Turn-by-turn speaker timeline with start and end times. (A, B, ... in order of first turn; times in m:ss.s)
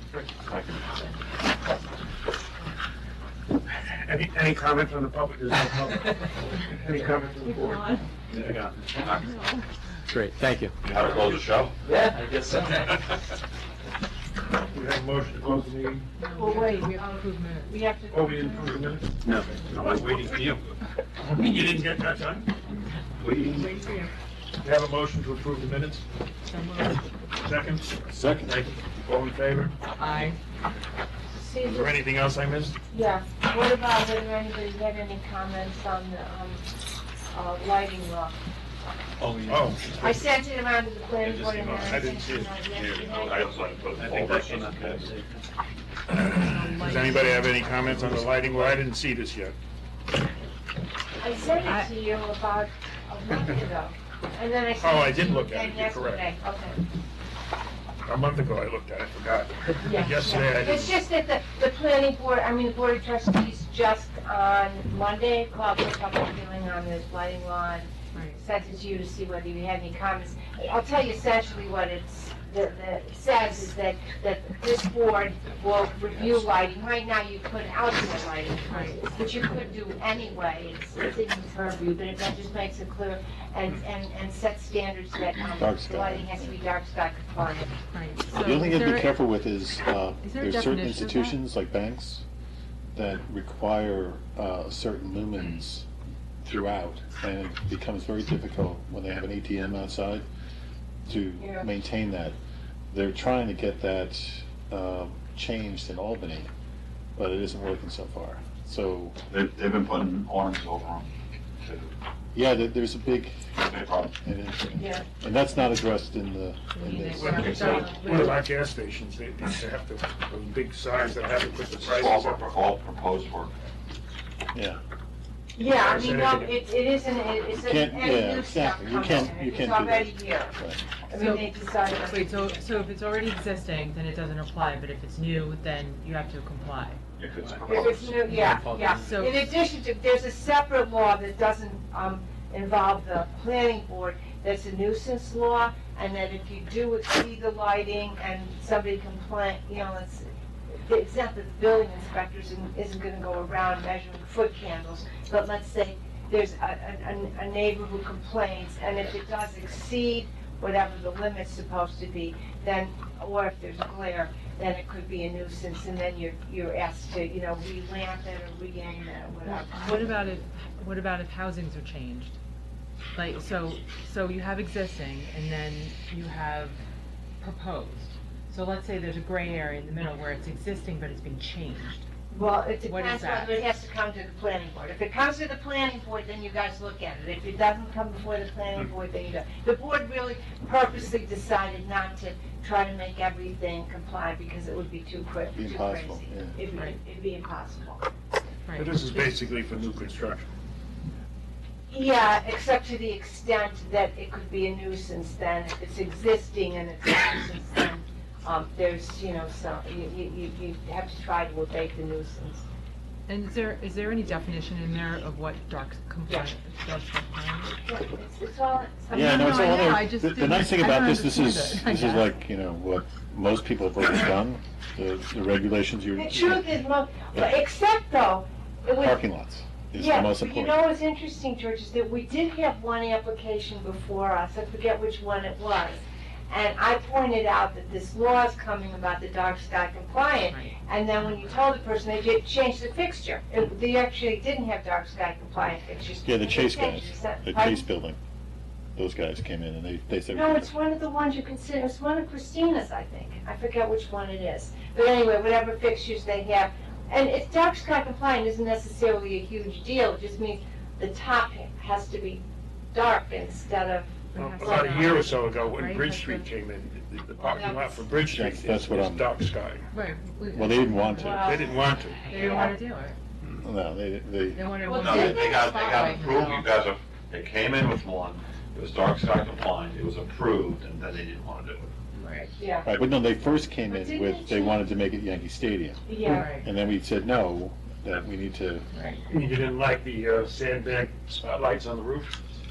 0:00.5-0:00.8 A
0:03.7-0:06.2 B
0:06.7-0:07.9 B
0:07.5-0:08.0 C
0:08.3-0:09.1 D
0:09.3-0:09.6 E
0:10.1-0:11.3 D
0:10.8-0:11.8 A
0:11.8-0:12.9 D
0:14.7-0:16.0 B
0:16.2-0:17.7 E
0:16.3-0:19.0 C
0:18.1-0:19.2 B
0:19.7-0:20.5 B
0:19.7-0:20.6 A
0:21.2-0:22.5 B
0:23.2-0:23.5 A
0:23.5-0:24.1 E
0:24.6-0:26.0 B
0:26.4-0:27.0 E
0:27.4-0:28.1 B
0:28.1-0:28.6 F
0:29.0-0:29.8 B
0:30.0-0:30.4 E
0:31.3-0:31.9 C
0:31.6-0:32.8 B
0:32.9-0:36.6 C
0:37.3-0:38.4 C
0:39.5-0:40.1 B
0:40.0-0:43.6 C
0:41.2-0:41.9 D
0:41.6-0:42.6 B
0:42.7-0:45.1 A
0:44.0-0:45.3 D
0:46.1-0:49.6 B
0:46.4-0:47.8 E
0:48.2-0:48.8 D
0:51.2-0:56.8 C
0:51.6-0:51.9 E
0:54.8-0:56.3 B
0:58.1-1:01.0 B
0:59.8-1:27.7 C
1:08.1-1:08.4 E
1:18.7-1:19.1 E
1:25.5-1:26.5 F
1:27.9-1:29.3 E
1:28.3-1:32.2 F
1:30.2-1:31.4 E
1:33.0-1:35.9 F
1:36.4-1:40.3 F
1:41.1-1:42.4 F
1:41.4-1:41.7 C
1:42.9-1:46.5 F
1:47.2-1:49.2 F
1:49.3-1:51.9 A
1:52.3-1:57.9 F
1:53.7-1:54.1 A
1:54.8-1:55.1 C
1:56.8-1:58.4 E
1:57.2-2:02.5 B
2:01.8-2:03.5 A
2:04.5-2:04.8 F
2:05.6-2:10.6 C
2:05.6-2:06.6 B
2:07.5-2:10.8 F
2:11.1-2:12.6 C
2:11.1-2:17.0 E
2:17.2-2:18.1 A
2:17.4-2:19.0 D
2:17.6-2:50.3 C
2:18.2-2:19.5 E
2:49.5-2:52.4 E
2:53.2-2:56.8 E
2:57.4-3:02.1 E
3:02.3-3:18.0 C
3:02.8-3:03.6 E
3:15.6-3:16.6 F
3:18.7-3:19.4 E
3:18.8-3:20.5 B
3:21.9-3:32.7 C
3:33.3-3:37.7 E
3:37.7-3:40.0 C
3:39.1-3:46.8 F
3:39.2-3:42.3 E
3:46.2-3:49.2 C
3:49.0-3:50.8 F
3:50.0-4:07.8 C
4:00.4-4:01.6 E
4:06.2-4:08.2 F
4:09.0-4:10.7 F
4:10.3-4:25.2 C
4:24.4-4:26.5 E
4:24.4-4:29.8 B
4:27.5-4:28.1 C
4:28.3-4:29.3 F
4:29.9-4:33.2 E
4:30.5-4:31.6 F
4:31.2-4:32.8 C
4:31.3-4:32.6 B
4:33.6-4:34.7 F
4:34.5-4:36.7 E
4:34.8-4:36.3 C
4:35.0-4:41.9 A
4:42.2-4:42.6 E
4:42.6-4:42.9 C
4:42.8-4:48.9 F
4:43.8-4:44.8 C
4:46.1-4:46.5 C
4:46.2-4:46.7 E
4:48.9-4:49.2 E
4:49.3-4:52.3 B